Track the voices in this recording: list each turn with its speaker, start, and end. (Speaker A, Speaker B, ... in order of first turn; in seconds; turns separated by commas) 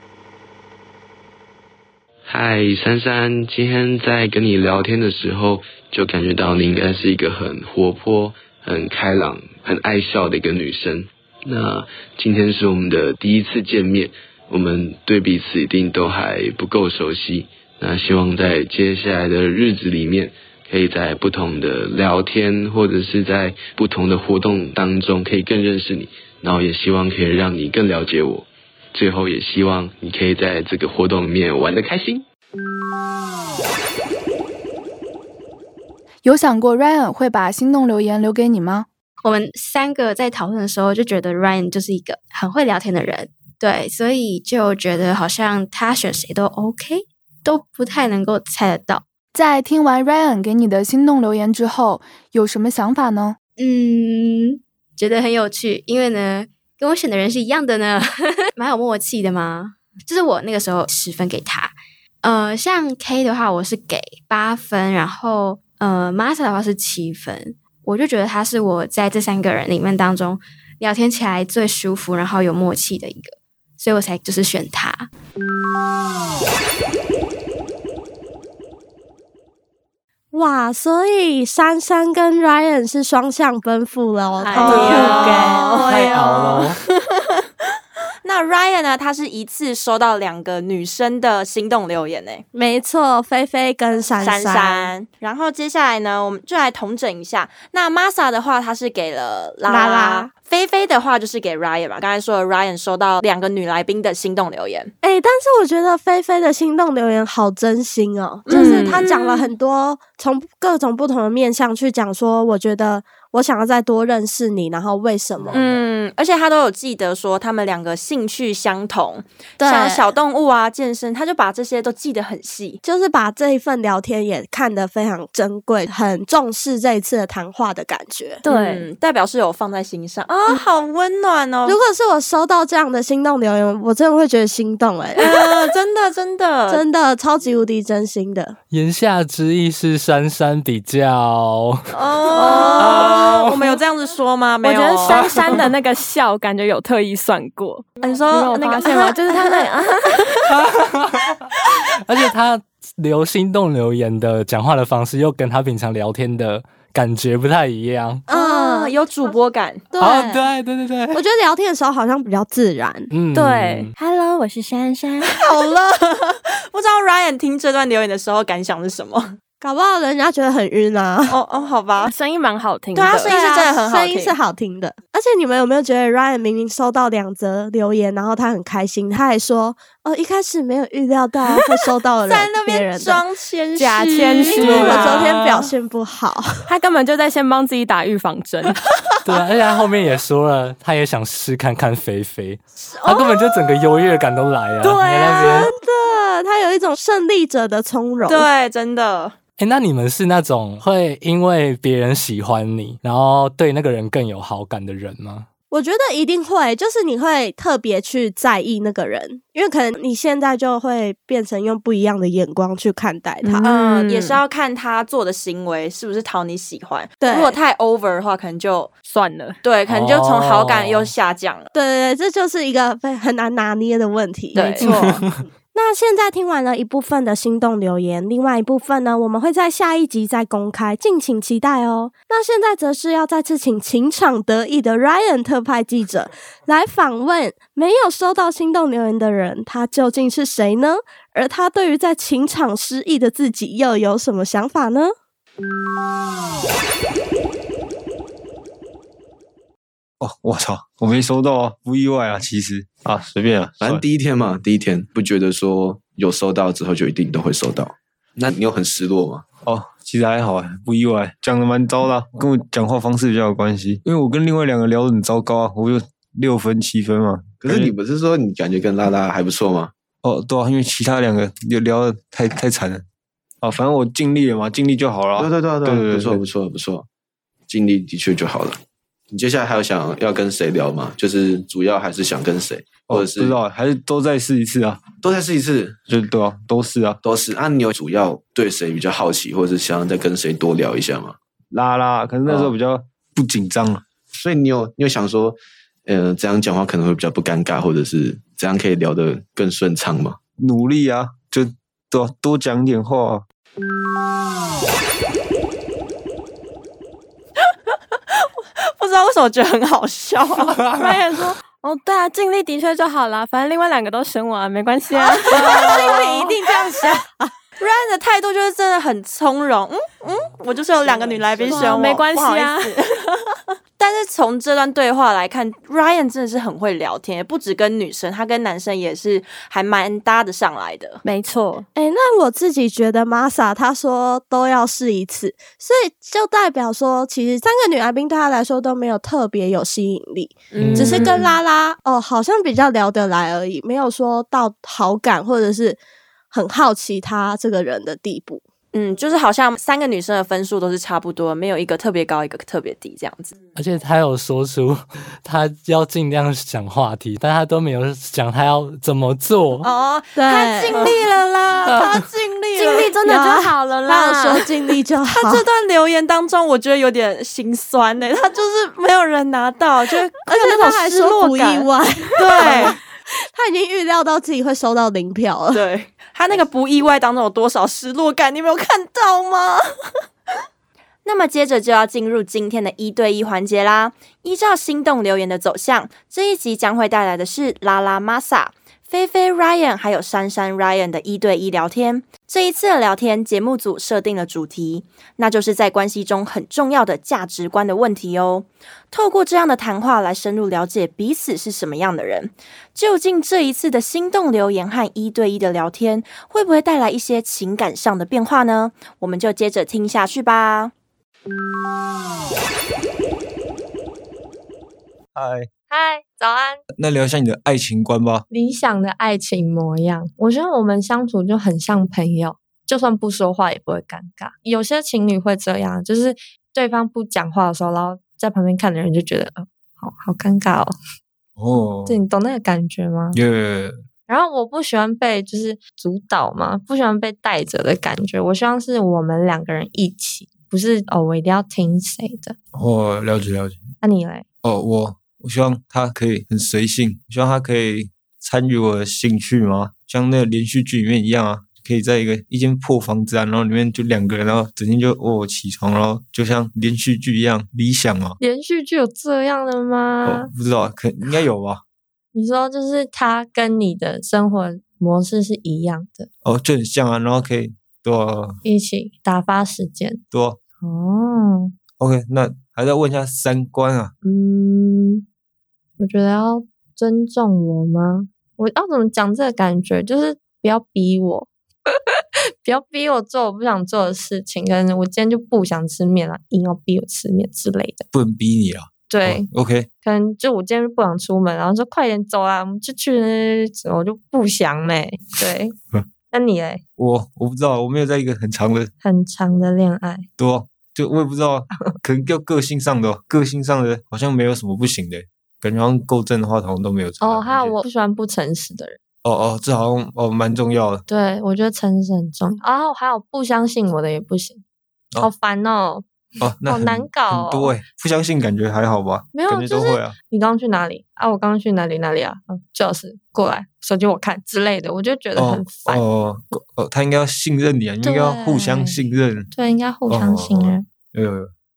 Speaker A: 2.3-32.2, Speaker B: 36.2-38.9, Speaker C: 39.2-49.0, Speaker B: 49.3-53.4, Speaker C: 53.6-75.1, Speaker D: 80.3-85.9, Speaker E: 84.4-86.6, Speaker F: 84.5-86.7, Speaker G: 84.6-85.2, Speaker G: 85.9-86.8, Speaker F: 88.2-92.4, Speaker D: 92.5-94.9, Speaker F: 94.2-104.9, Speaker D: 99.7-100.3, Speaker D: 105.0-115.6, Speaker F: 108.5-109.5, Speaker E: 108.5-109.0, Speaker F: 115.5-122.8, Speaker D: 119.6-120.1, Speaker D: 122.8-128.4, Speaker E: 128.4-128.8, Speaker F: 128.4-131.8, Speaker D: 131.6-135.7, Speaker F: 135.2-136.8, Speaker D: 136.7-138.6, Speaker G: 138.7-141.8, Speaker F: 141.9-145.6, Speaker E: 142.3-143.2, Speaker G: 142.8-143.6, Speaker E: 144.6-150.3, Speaker G: 145.1-145.6, Speaker F: 148.0-149.7, Speaker G: 150.5-151.3, Speaker G: 152.0-158.2, Speaker D: 158.3-158.9, Speaker F: 158.3-159.8, Speaker D: 159.9-160.4, Speaker G: 160.0-161.2, Speaker D: 161.1-163.1, Speaker G: 163.1-163.9, Speaker E: 163.3-165.6, Speaker F: 165.3-169.3, Speaker D: 169.6-171.4, Speaker F: 171.3-172.1, Speaker E: 172.0-173.3, Speaker F: 172.9-174.3, Speaker D: 173.1-183.2, Speaker F: 182.3-185.2, Speaker E: 183.8-185.3, Speaker D: 184.6-186.7, Speaker G: 184.6-185.7, Speaker E: 186.7-188.8, Speaker G: 189.2-195.7, Speaker D: 193.0-193.3, Speaker D: 194.8-198.5, Speaker F: 198.3-199.3, Speaker G: 199.6-205.5, Speaker D: 205.7-213.7, Speaker E: 213.4-214.3, Speaker F: 213.6-218.9, Speaker D: 217.2-217.6, Speaker E: 219.1-219.6, Speaker F: 219.6-221.7, Speaker G: 219.9-221.1, Speaker D: 221.7-225.0, Speaker E: 224.5-224.9, Speaker F: 224.5-225.3, Speaker D: 225.7-245.1, Speaker H: 250.2-254.0, Speaker I: 253.8-259.4, Speaker H: 259.6-267.9, Speaker I: 267.6-269.9, Speaker H: 270.2-273.0, Speaker H: 273.6-276.4, Speaker I: 275.4-277.1, Speaker I: 277.7-278.8, Speaker I: 279.3-283.6, Speaker H: 283.1-285.0, Speaker I: 285.2-286.0, Speaker H: 286.1-287.2, Speaker I: 287.2-291.4, Speaker H: 291.7-294.0, Speaker I: 292.5-292.7, Speaker I: 294.3-300.4, Speaker H: 300.6-303.4, Speaker F: 308.8-310.8, Speaker E: 310.9-317.2, Speaker F: 315.3-316.5, Speaker D: 315.7-316.2, Speaker F: 317.8-323.1, Speaker E: 321.2-323.0, Speaker D: 321.7-322.1, Speaker F: 324.0-331.2, Speaker E: 331.2-331.9, Speaker D: 331.9-346.0, Speaker F: 340.7-341.5, Speaker G: 340.8-341.3, Speaker E: 341.1-341.3, Speaker D: 346.5-348.6, Speaker F: 348.9-353.6, Speaker G: 353.8-359.9, Speaker F: 359.8-363.1, Speaker D: 360.3-361.1, Speaker D: 362.8-365.6, Speaker E: 362.8-364.6, Speaker F: 365.3-373.0, Speaker D: 370.4-373.0, Speaker D: 373.5-375.8, Speaker F: 375.7-379.8, Speaker F: 381.2-410.9, Speaker H: 415.3-415.7, Speaker J: 415.9-416.8, Speaker H: 416.9-418.4, Speaker J: 418.5-430.9, Speaker H: 431.6-432.2, Speaker J: 432.1-433.4, Speaker H: 433.3-434.0, Speaker J: 434.3-442.6, Speaker H: 442.7-443.8, Speaker J: 444.0-444.4, Speaker H: 444.6-458.4, Speaker J: 458.4-460.5, Speaker H: 460.2-461.8, Speaker J: 462.3-466.3, Speaker H: 466.4-468.6, Speaker J: 468.6-470.2, Speaker H: 470.3-470.6, Speaker J: 470.8-471.7, Speaker H: 472.0-474.1, Speaker J: 474.2-475.2, Speaker J: 476.0-481.5, Speaker J: 482.6-488.1, Speaker H: 488.1-489.9, Speaker J: 489.1-489.5, Speaker J: 490.0-495.8, Speaker J: 496.3-496.8, Speaker H: 497.0-498.9, Speaker J: 499.0-500.3, Speaker H: 500.4-507.8, Speaker J: 507.2-509.0, Speaker H: 509.2-511.0, Speaker J: 511.1-514.6, Speaker J: 515.2-516.0, Speaker H: 516.4-520.1, Speaker J: 516.6-517.8, Speaker J: 519.3-526.0, Speaker H: 525.4-529.5, Speaker J: 528.0-530.8, Speaker H: 530.1-531.5